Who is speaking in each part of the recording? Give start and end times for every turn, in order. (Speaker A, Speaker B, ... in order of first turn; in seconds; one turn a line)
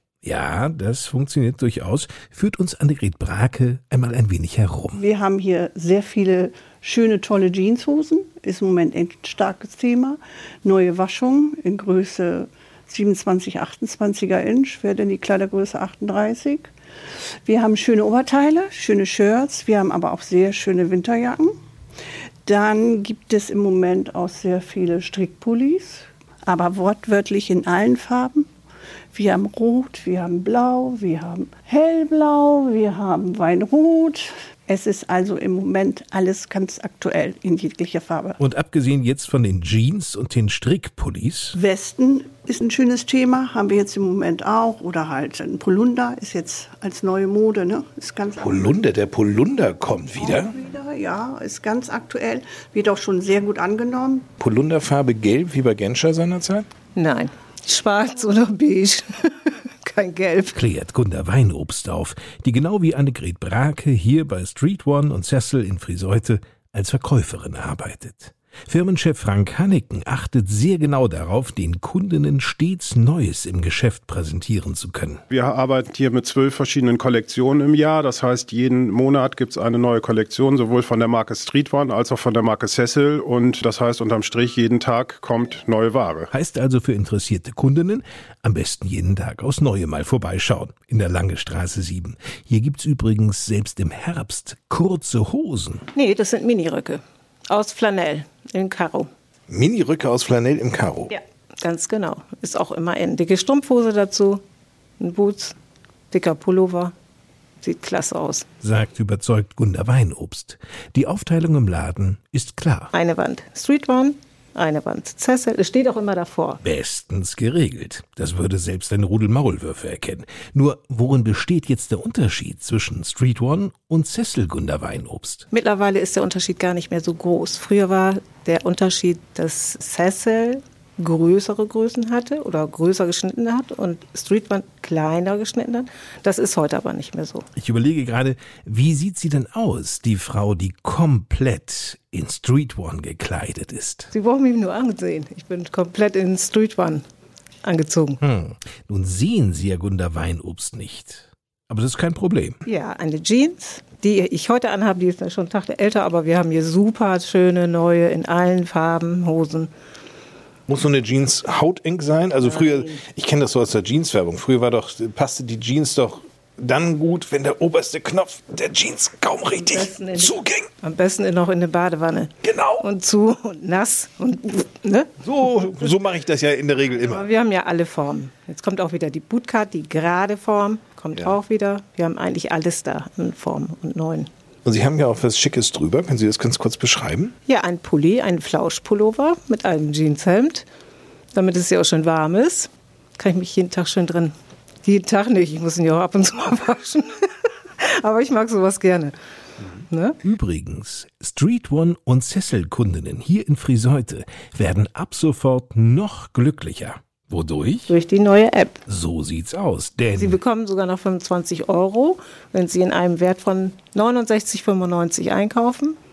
Speaker A: 0.2-5.0
Speaker B: 5.0-16.7
Speaker B: 17.4-21.6
Speaker B: 22.4-28.5
Speaker B: 29.1-38.4
Speaker A: 38.4-41.5
Speaker B: 41.5-48.8
Speaker A: 48.4-50.5
Speaker B: 50.2-54.3
Speaker A: 54.4-56.7
Speaker C: 57.0-60.6
Speaker A: 60.5-75.2
Speaker D: 75.3-86.3
Speaker A: 86.3-95.8
Speaker C: 96.0-99.1
Speaker A: 99.5-101.1
Speaker C: 101.1-104.4
Speaker C: 105.0-105.5
Speaker C: 106.1-106.9
Speaker C: 107.6-108.5
Speaker A: 108.6-112.9
Speaker C: 112.9-116.6
Speaker A: 116.6-125.5
Speaker C: 125.5-137.5
Speaker A: 137.6-144.1
Speaker C: 144.1-147.0
Speaker C: 147.6-148.2
Speaker A: 148.2-152.6
Speaker C: 152.7-159.7
Speaker A: 160.7-170.7
Speaker C: 169.6-175.1
Speaker A: 172.4-172.9
Speaker A: 175.2-177.3
Speaker C: 177.0-184.3
Speaker A: 184.7-187.3
Speaker C: 187.5-190.7
Speaker C: 191.3-194.3
Speaker C: 194.8-197.3
Speaker C: 197.8-199.1
Speaker C: 199.9-200.2
Speaker A: 200.2-207.9
Speaker C: 207.9-208.8
Speaker A: 208.9-210.4
Speaker C: 210.2-216.0